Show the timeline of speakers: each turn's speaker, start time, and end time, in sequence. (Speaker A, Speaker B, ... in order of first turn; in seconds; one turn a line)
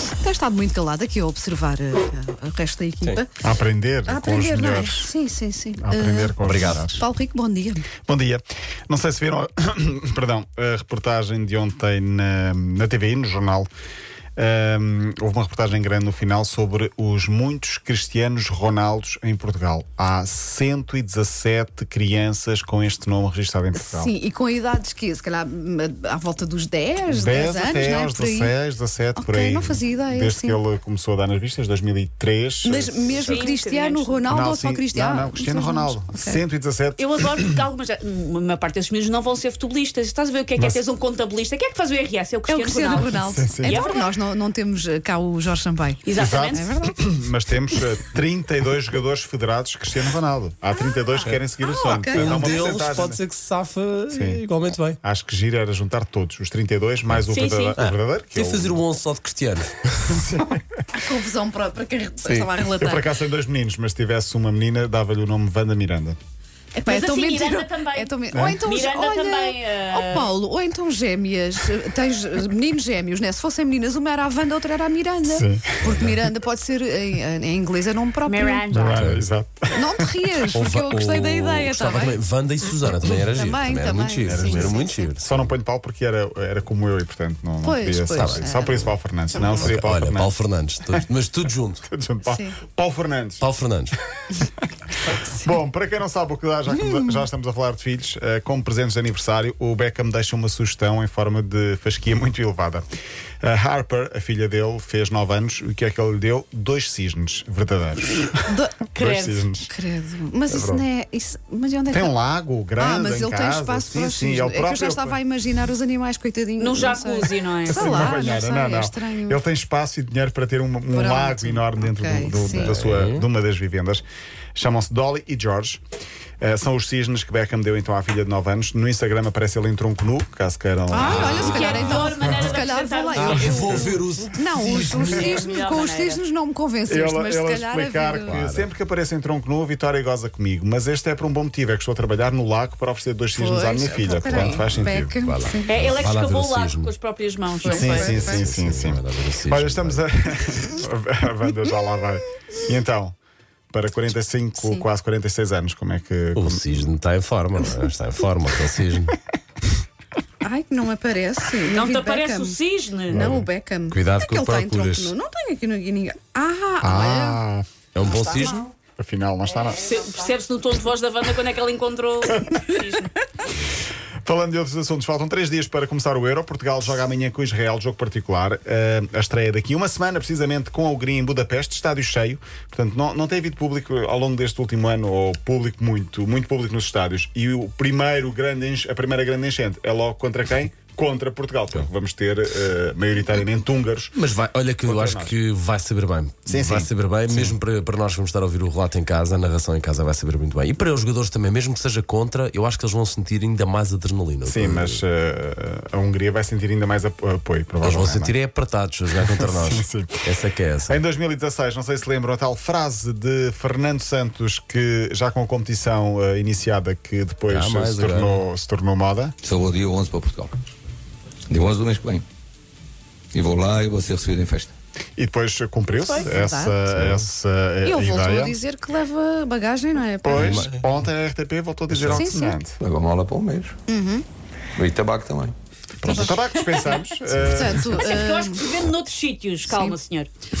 Speaker A: 0.2-3.3
Speaker B: 3.4-5.1
Speaker A: 4.1-7.9
Speaker B: 5.8-7.0
Speaker B: 8.1-13.7
Speaker B: 14.4-24.1
Speaker A: 23.7-28.5
Speaker B: 27.1-33.3
Speaker A: 29.1-30.6
Speaker A: 32.6-36.4
Speaker C: 33.2-34.2
Speaker B: 34.3-37.6
Speaker C: 37.0-43.1
Speaker B: 40.5-40.8
Speaker A: 42.5-47.2
Speaker B: 43.1-43.9
Speaker C: 43.6-44.1
Speaker C: 46.0-46.7
Speaker B: 46.2-53.2
Speaker A: 50.7-52.5
Speaker D: 52.1-55.0
Speaker B: 54.1-54.4
Speaker B: 55.0-58.8
Speaker C: 57.3-57.8
Speaker D: 57.8-60.2
Speaker B: 60.1-60.6
Speaker A: 60.9-63.1
Speaker B: 62.7-66.2
Speaker A: 66.7-78.7
Speaker C: 66.9-70.3
Speaker B: 68.3-68.6
Speaker B: 75.3-75.7
Speaker D: 75.8-76.1
Speaker C: 78.2-79.0
Speaker B: 78.7-80.1
Speaker A: 79.7-82.2
Speaker D: 80.6-85.2
Speaker A: 82.8-85.2
Speaker B: 84.3-91.0
Speaker A: 87.6-89.7
Speaker D: 88.2-88.4
Speaker D: 89.5-91.8
Speaker B: 91.9-93.4
Speaker A: 92.2-92.6
Speaker D: 93.4-94.0
Speaker A: 95.1-95.4
Speaker B: 95.4-102.8
Speaker A: 96.8-97.2
Speaker B: 103.4-109.7
Speaker A: 108.5-108.8
Speaker C: 108.9-109.5
Speaker A: 109.7-112.1
Speaker B: 110.5-110.8
Speaker B: 111.9-115.2
Speaker A: 112.8-119.4
Speaker C: 116.6-118.1
Speaker B: 117.7-125.8
Speaker A: 120.9-122.8
Speaker D: 122.7-123.2
Speaker B: 126.4-132.6
Speaker A: 130.9-138.7
Speaker D: 131.1-132.1
Speaker C: 131.2-134.0
Speaker D: 133.2-135.3
Speaker B: 133.2-133.9
Speaker C: 135.1-136.2
Speaker B: 135.2-135.4
Speaker B: 136.9-145.1
Speaker A: 143.3-145.8
Speaker D: 144.4-144.7
Speaker D: 145.2-146.9
Speaker C: 145.7-148.3
Speaker A: 147.6-148.5
Speaker B: 147.6-153.1
Speaker D: 148.1-150.0
Speaker B: 153.7-156.8
Speaker A: 154.6-154.8
Speaker D: 156.3-159.1
Speaker A: 160.4-162.6
Speaker C: 161.7-163.3
Speaker A: 163.1-167.4
Speaker B: 163.1-163.5
Speaker D: 163.9-165.1
Speaker B: 166.8-167.7
Speaker D: 167.9-168.5
Speaker A: 168.0-168.7
Speaker B: 169.0-169.8
Speaker C: 169.7-173.1
Speaker B: 174.2-194.1
Speaker D: 194.1-205.0
Speaker B: 194.8-195.3
Speaker B: 196.4-197.6
Speaker B: 204.4-208.3
Speaker D: 207.8-211.0
Speaker B: 209.1-210.2
Speaker B: 210.9-219.3
Speaker D: 217.5-218.4
Speaker E: 219.4-220.6
Speaker E: 221.5-222.2
Speaker E: 223.3-224.7
Speaker B: 225.2-228.6
Speaker A: 226.0-227.2
Speaker A: 227.8-230.7
Speaker B: 230.2-232.8
Speaker E: 231.9-233.8
Speaker A: 232.1-232.6
Speaker A: 233.9-234.2
Speaker E: 234.8-235.6
Speaker B: 235.9-238.2
Speaker A: 236.0-238.7
Speaker C: 236.7-237.0
Speaker C: 237.9-240.3
Speaker A: 239.7-240.0